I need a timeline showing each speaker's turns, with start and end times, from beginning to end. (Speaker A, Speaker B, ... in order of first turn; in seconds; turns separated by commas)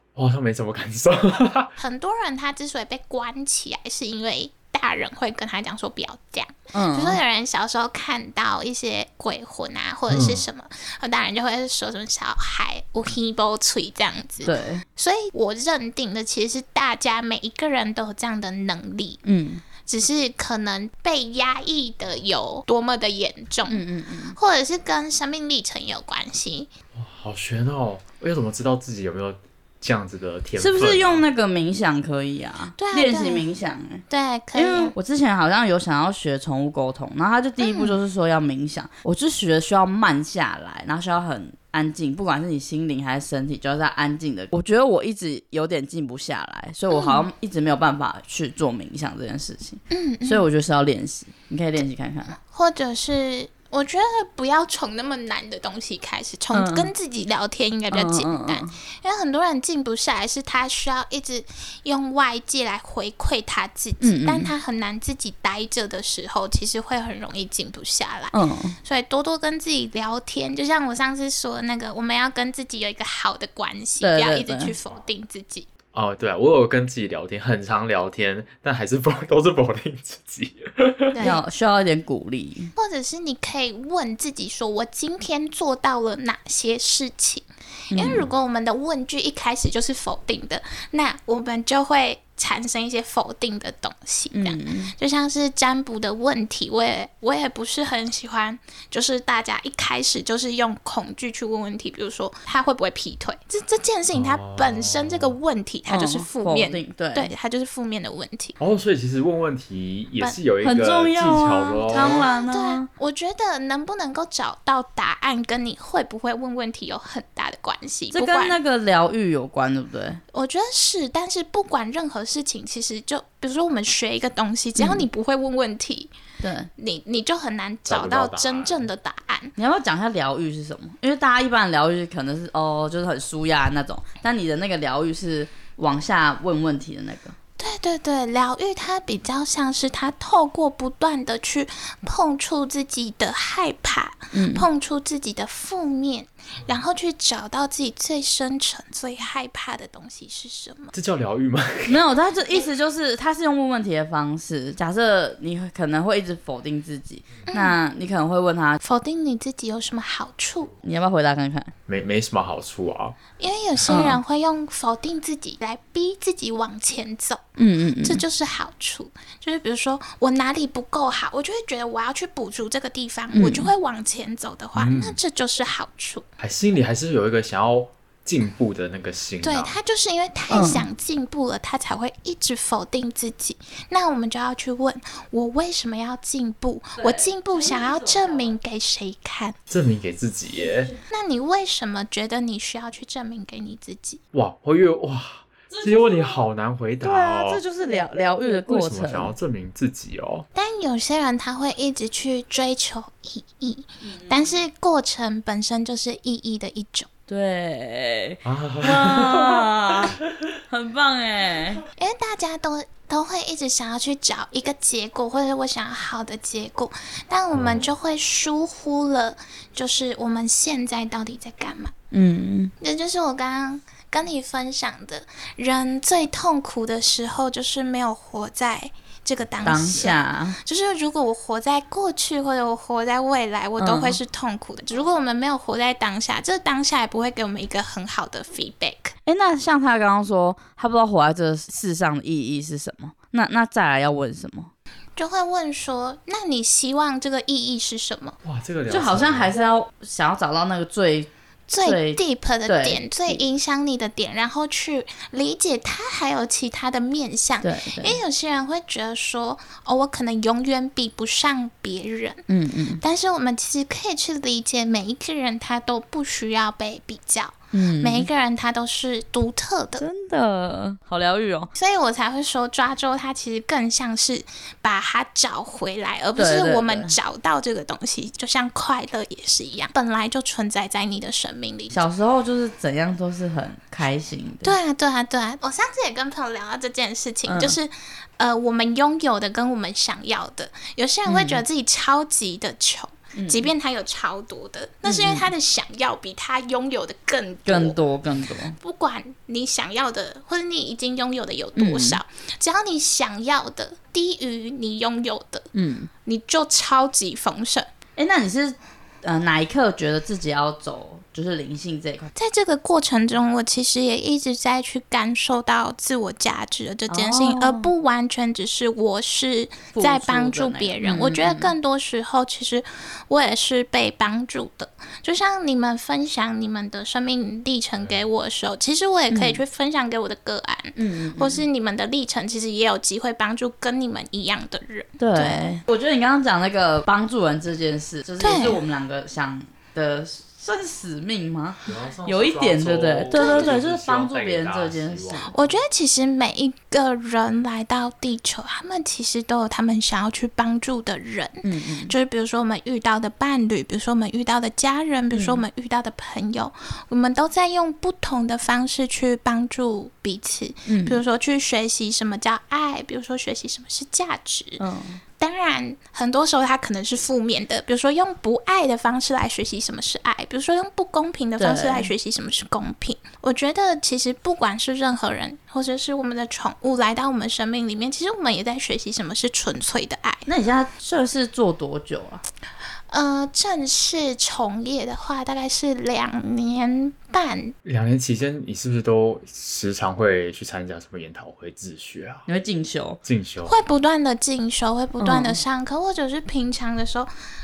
Speaker A: 0.1-1.7, Speaker B: 1.8-19.2, Speaker C: 6.7-7.2, Speaker A: 10.1-10.4, Speaker C: 14.4-14.8, Speaker C: 19.2-19.6, Speaker B: 19.9-23.8, Speaker C: 23.7-24.4, Speaker B: 24.4-26.7, Speaker A: 26.9-31.2, Speaker C: 30.6-34.0, Speaker B: 32.8-33.5, Speaker B: 34.1-34.9, Speaker C: 34.5-52.4, Speaker B: 37.6-38.0, Speaker B: 46.9-47.3, Speaker B: 49.9-50.5, Speaker B: 52.4-75.7, Speaker C: 56.5-56.9, Speaker C: 57.9-58.7, Speaker C: 64.0-64.5, Speaker C: 68.3-68.8, Speaker C: 74.0-74.8, Speaker A: 75.9-81.3, Speaker B: 81.1-81.4, Speaker C: 81.2-82.7, Speaker B: 82.8-108.6, Speaker C: 87.9-88.3, Speaker C: 94.3-94.9, Speaker A: 104.1-105.3, Speaker C: 105.9-107.3, Speaker A: 108.6-112.3, Speaker C: 110.6-112.9, Speaker B: 111.9-118.6, Speaker C: 118.1-120.2, Speaker B: 120.3-126.1, Speaker C: 124.8-125.1, Speaker C: 126.4-126.7, Speaker B: 126.8-129.5, Speaker A: 127.9-128.9, Speaker C: 129.6-137.4, Speaker B: 137.6-150.9, Speaker C: 144.3-144.7, Speaker A: 150.9-152.0, Speaker C: 151.9-158.8, Speaker B: 157.5-157.8, Speaker B: 158.8-160.8, Speaker C: 160.8-161.7, Speaker A: 161.9-163.2, Speaker B: 163.4-176.2, Speaker C: 163.9-164.2, Speaker C: 167.6-168.2, Speaker C: 173.3-173.7, Speaker A: 174.8-175.2, Speaker A: 176.4-179.8, Speaker B: 179.4-189.6, Speaker C: 180.5-180.8, Speaker C: 187.0-188.5, Speaker A: 189.7-190.9, Speaker B: 191.1-194.2, Speaker A: 194.3-197.6, Speaker C: 195.7-196.4, Speaker C: 197.0-199.3, Speaker A: 198.7-200.5, Speaker B: 200.6-207.1, Speaker C: 204.0-204.5, Speaker C: 207.3-210.2, Speaker A: 208.4-210.2, Speaker C: 210.7-211.8, Speaker B: 212.0-221.9, Speaker A: 217.5-217.9, Speaker C: 222.1-222.7, Speaker B: 222.8-239.1, Speaker C: 229.6-230.6, Speaker C: 233.8-234.2, Speaker C: 239.3-244.7, Speaker B: 245.2-248.4, Speaker A: 248.4-249.5, Speaker C: 248.9-253.4, Speaker B: 251.7-262.4, Speaker C: 257.6-258.2, Speaker C: 262.5-263.0, Speaker B: 263.0-270.0, Speaker C: 267.7-268.3, Speaker C: 270.0-271.7, Speaker B: 271.8-282.0, Speaker C: 276.4-277.1, Speaker C: 281.9-284.8, Speaker B: 284.6-298.0, Speaker C: 287.4-287.8, Speaker C: 291.3-291.6, Speaker C: 293.4-293.7, Speaker C: 295.1-295.5, Speaker C: 297.7-298.8, Speaker B: 298.8-305.7, Speaker C: 301.8-302.2, Speaker C: 305.8-306.1, Speaker B: 306.3-307.9, Speaker C: 308.2-312.3, Speaker B: 312.4-335.7, Speaker C: 317.1-317.9, Speaker C: 319.9-321.7, Speaker C: 329.3-329.6, Speaker C: 331.0-331.6, Speaker C: 335.2-345.5, Speaker B: 338.4-338.8, Speaker A: 341.9-345.6, Speaker B: 343.3-343.8, Speaker B: 345.5-364.8, Speaker C: 351.6-352.1, Speaker C: 355.3-355.6, Speaker C: 360.9-361.2, Speaker C: 364.8-365.2, Speaker B: 365.4-380.5, Speaker C: 371.6-372.1, Speaker C: 380.5-382.4, Speaker B: 383.1-387.8, Speaker A: 387.9-392.4, Speaker C: 392.5-393.2, Speaker A: 393.2-393.8, Speaker B: 393.7-397.3, Speaker C: 395.2-395.6